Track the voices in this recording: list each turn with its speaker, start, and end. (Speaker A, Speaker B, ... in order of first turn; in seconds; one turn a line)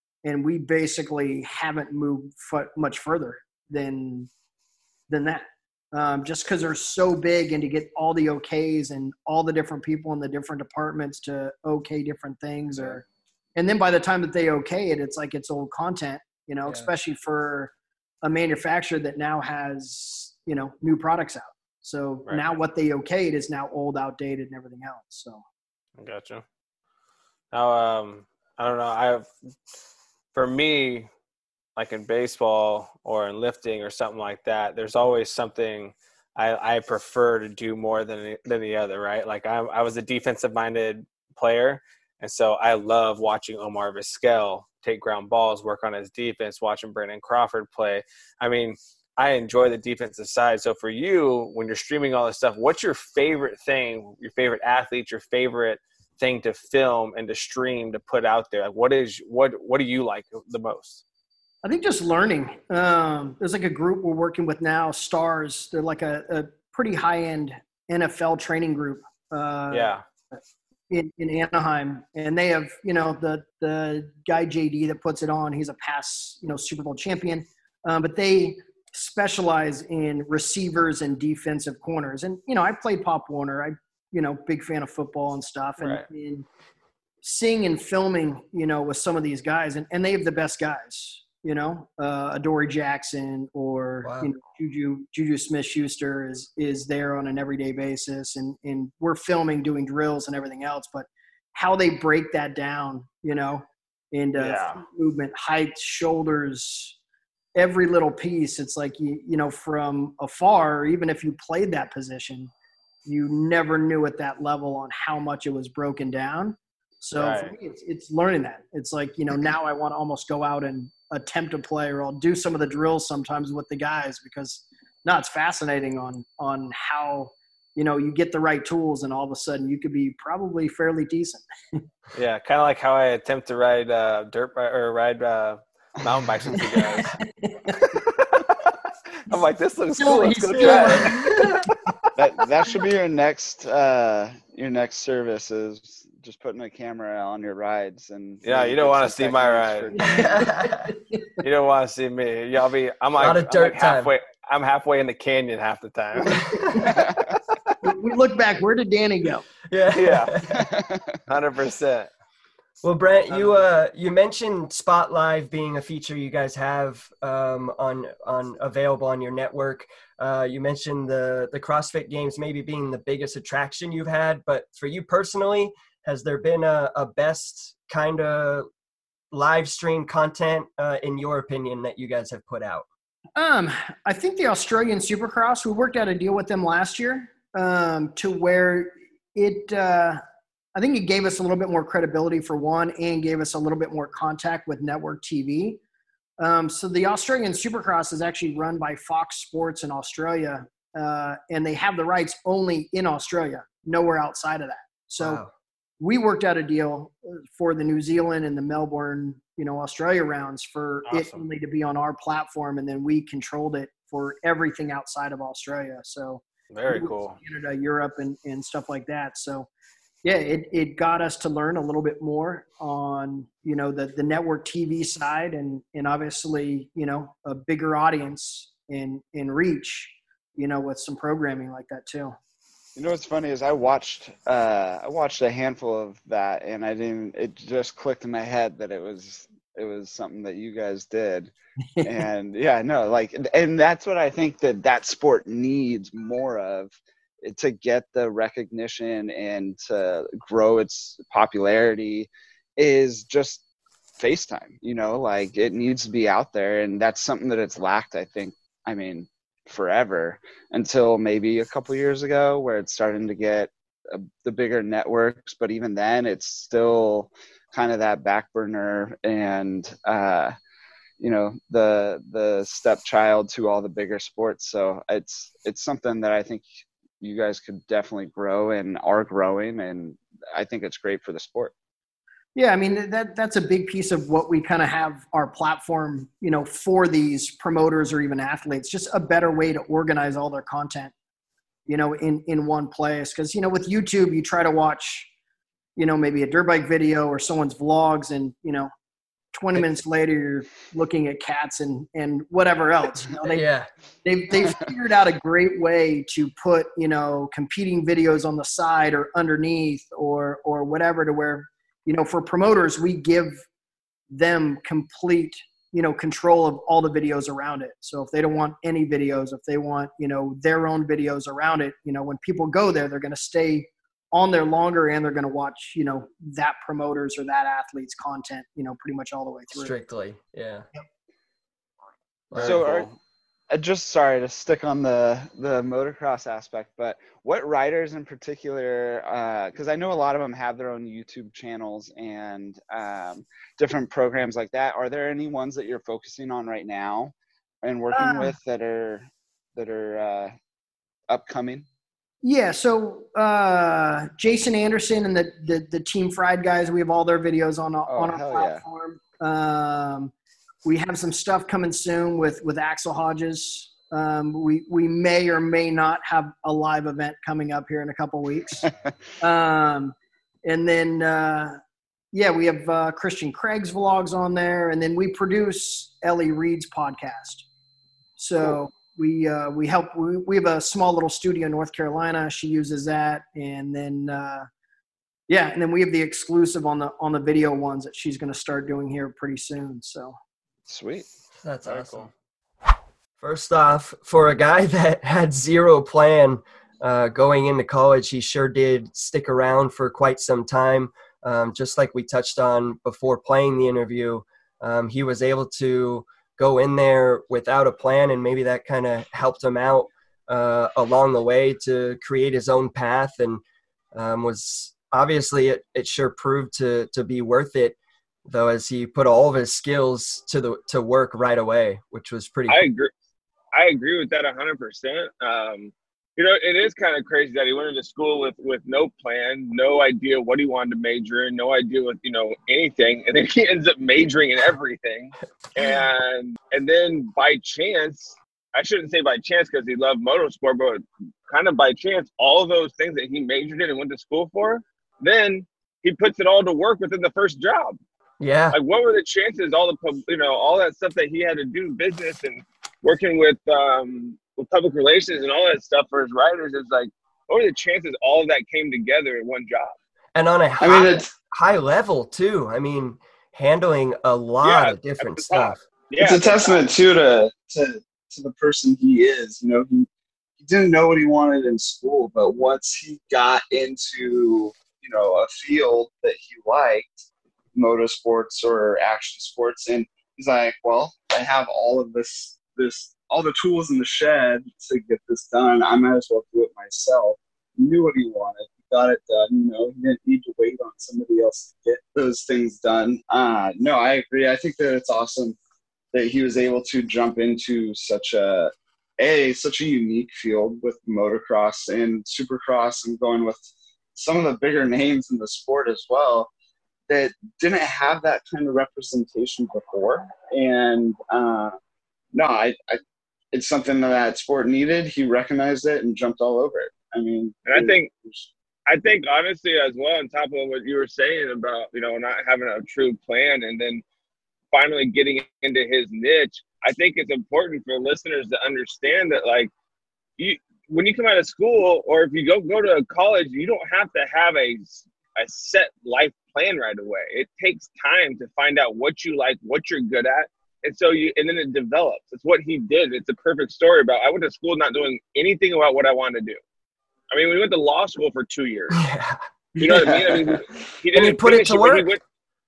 Speaker A: 0.2-4.3
Speaker A: 5.1-13.0
Speaker A: 13.6-17.7
Speaker A: 18.2-25.4
Speaker B: 26.0-26.4
Speaker B: 27.5-29.3
Speaker B: 30.3-31.1
Speaker B: 31.8-61.0
Speaker A: 61.6-69.9
Speaker B: 69.7-70.0
Speaker A: 70.9-86.5
Speaker B: 85.8-86.0
Speaker A: 87.2-106.9
Speaker C: 94.0-94.3
Speaker B: 104.4-104.8
Speaker A: 107.5-112.5
Speaker A: 113.0-131.8
Speaker B: 117.2-117.5
Speaker B: 132.1-137.1
Speaker A: 137.2-138.0
Speaker B: 137.8-138.8
Speaker B: 139.3-141.4
Speaker A: 140.0-141.6
Speaker C: 140.5-141.7
Speaker D: 142.2-150.3
Speaker B: 148.4-149.9
Speaker A: 149.9-151.4
Speaker C: 150.0-150.9
Speaker B: 151.4-157.8
Speaker C: 153.2-154.1
Speaker A: 156.2-156.9
Speaker C: 156.4-156.7
Speaker D: 156.8-157.3
Speaker A: 157.8-159.4
Speaker C: 159.7-160.7
Speaker B: 159.9-160.4
Speaker D: 160.5-161.2
Speaker B: 161.3-162.1
Speaker C: 162.8-178.7
Speaker C: 179.3-182.8
Speaker A: 183.4-190.2
Speaker A: 190.7-195.8
Speaker A: 196.4-205.4
Speaker C: 205.2-205.5
Speaker A: 206.0-219.7
Speaker B: 211.1-211.4
Speaker B: 216.7-217.4
Speaker A: 220.2-232.3
Speaker D: 232.9-253.6
Speaker D: 254.2-270.5
Speaker D: 271.2-276.7
Speaker D: 277.2-281.7
Speaker A: 282.5-291.1
Speaker A: 291.9-295.3
Speaker A: 296.0-298.9
Speaker A: 299.5-303.6
Speaker C: 303.4-303.9
Speaker A: 304.2-313.6
Speaker A: 314.3-329.9
Speaker C: 329.7-330.9
Speaker C: 332.5-332.8
Speaker D: 332.5-333.1
Speaker B: 332.5-333.1
Speaker D: 333.7-350.5
Speaker A: 348.1-348.5
Speaker D: 351.3-351.9
Speaker A: 352.4-360.3
Speaker D: 358.1-358.8
Speaker A: 360.8-368.9
Speaker A: 369.4-370.1
Speaker A: 370.6-371.8
Speaker A: 372.3-377.6
Speaker A: 378.4-384.7
Speaker A: 385.5-390.4
Speaker D: 390.9-391.3
Speaker C: 391.6-392.3
Speaker B: 391.8-392.3
Speaker C: 393.4-413.6
Speaker C: 414.1-422.8
Speaker E: 422.7-423.1
Speaker E: 423.7-448.0
Speaker C: 448.4-448.8
Speaker E: 448.7-459.9
Speaker C: 460.3-465.8
Speaker D: 460.8-461.3
Speaker E: 464.6-466.9
Speaker D: 466.2-470.1
Speaker D: 470.6-477.2
Speaker D: 477.7-495.6
Speaker D: 496.1-506.5
Speaker D: 507.1-511.8
Speaker D: 512.3-513.0
Speaker D: 513.5-518.5
Speaker E: 517.6-518.1
Speaker E: 518.9-524.0
Speaker E: 524.7-529.7
Speaker E: 530.4-546.6
Speaker E: 547.3-549.0
Speaker C: 548.9-549.4
Speaker E: 549.8-552.2
Speaker D: 549.8-550.6
Speaker C: 551.1-552.1